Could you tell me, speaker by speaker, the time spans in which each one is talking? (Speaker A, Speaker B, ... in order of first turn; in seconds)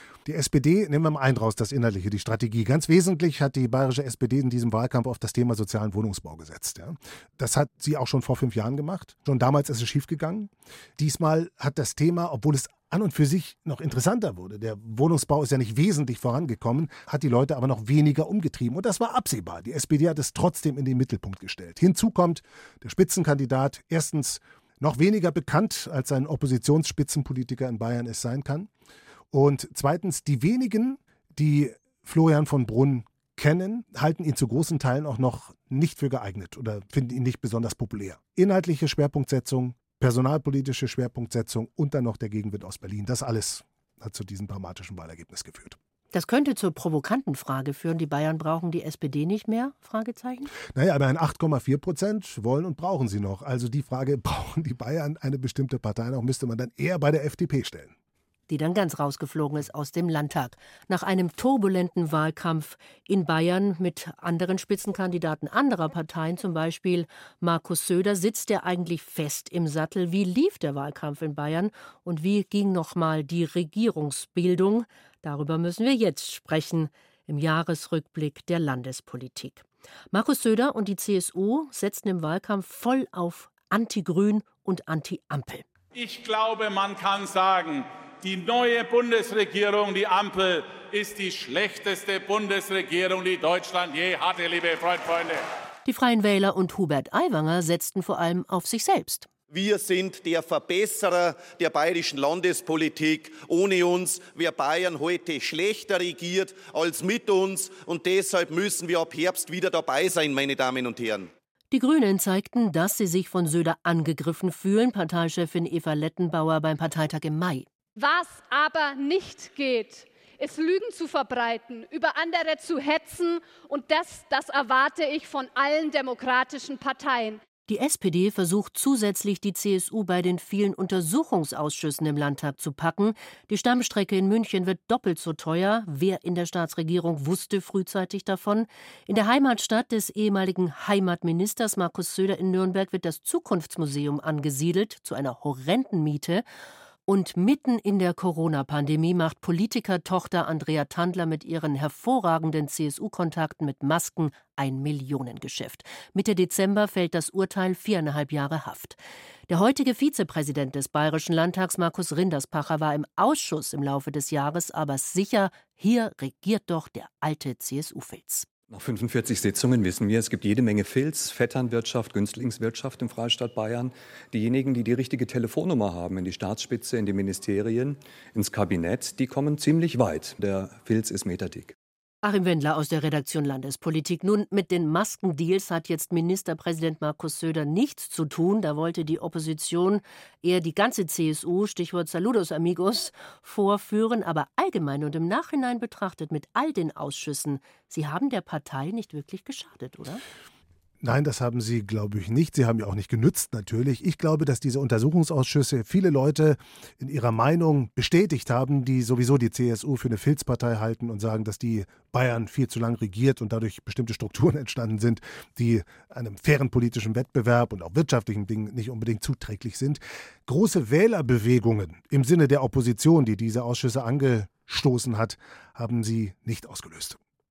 Speaker A: 0.2-28.7, 29.3-45.8, 50.7-57.9, 201.0-227.2
Speaker B: 46.1-50.5, 58.5-85.6, 95.8-99.3, 111.7-117.7, 127.7-146.4, 147.1-159.0, 159.5-168.5, 182.2-200.2
Speaker C: 85.9-95.4
Speaker D: 99.5-111.3
Speaker E: 118.0-127.4
Speaker F: 168.7-181.7